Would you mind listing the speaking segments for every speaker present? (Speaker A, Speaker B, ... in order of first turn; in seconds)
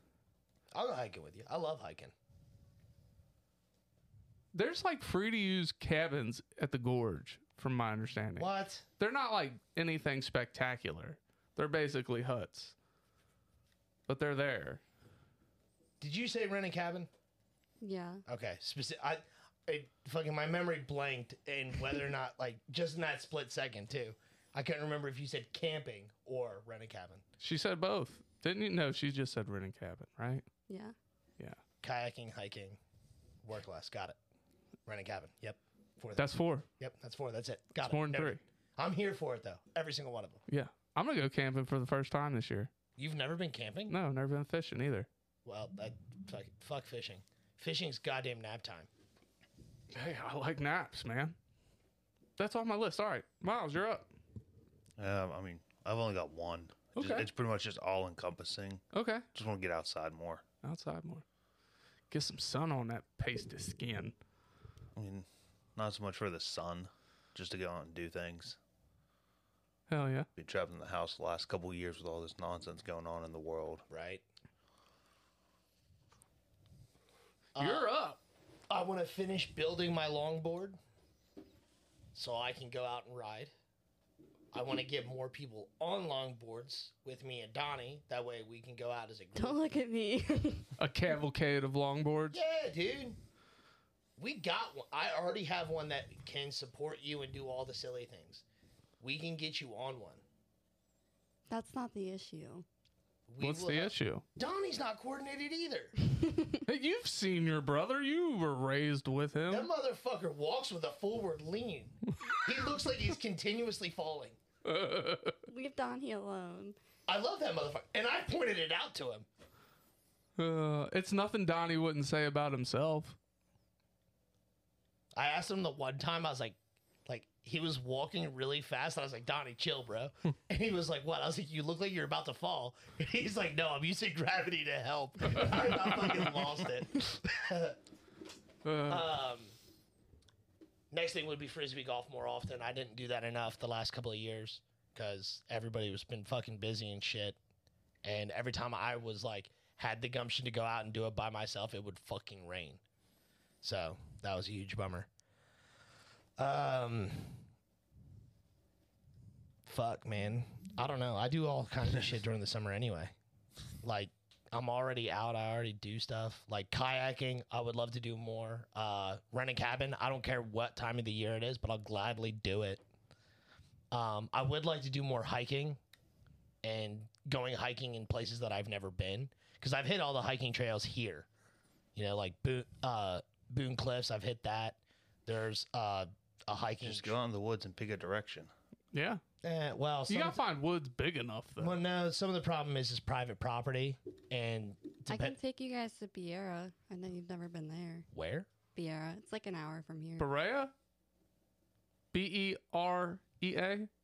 Speaker A: 0.7-2.1, 8.4-8.8, 16.0-17.1, 18.3-27.2, 31.8-32.8, 33.4-34.2, 34.9-36.3, 36.8-40.4, 43.0-44.0, 45.5-48.9, 73.9-74.2, 77.6-77.9, 78.7-80.8, 82.2-83.5, 84.5-89.6, 92.3-93.2, 94.2-98.4, 99.0-100.2, 103.3-105.9, 109.5-114.4, 117.1-119.3, 125.2-137.8, 138.9-139.6, 140.9-147.4, 148.0-152.8, 153.6-155.1, 156.4-157.4, 159.7-163.1, 163.8-172.8, 173.9-175.8, 176.6-181.3, 181.9-187.2, 189.4-190.4, 191.6-195.4, 198.1-198.5
Speaker B: 4.5-12.8, 14.1-14.8, 27.4-30.4, 36.2-36.7, 37.8-38.4, 40.5-42.7, 43.9-45.1, 49.9-51.4, 52.4-54.1, 57.0-57.3, 58.9-59.2, 60.6-61.2, 62.1-64.1, 69.9-70.3, 77.6-78.2, 90.8-92.4, 103.4-104.2, 106.7-109.7, 114.7-115.4, 120.4-123.2, 135.2-136.4, 138.7-139.1, 188.9-189.2, 190.1-191.8, 200.2-200.7, 202.1-203.9
Speaker C: 17.8-18.2, 30.7-30.9, 89.4-90.7, 101.5-102.7, 115.5-116.8, 195.1-198.1, 198.8-200.3
Speaker D: 55.0-58.8, 59.3-60.4, 65.0-68.6, 70.4-73.9, 186.8-188.5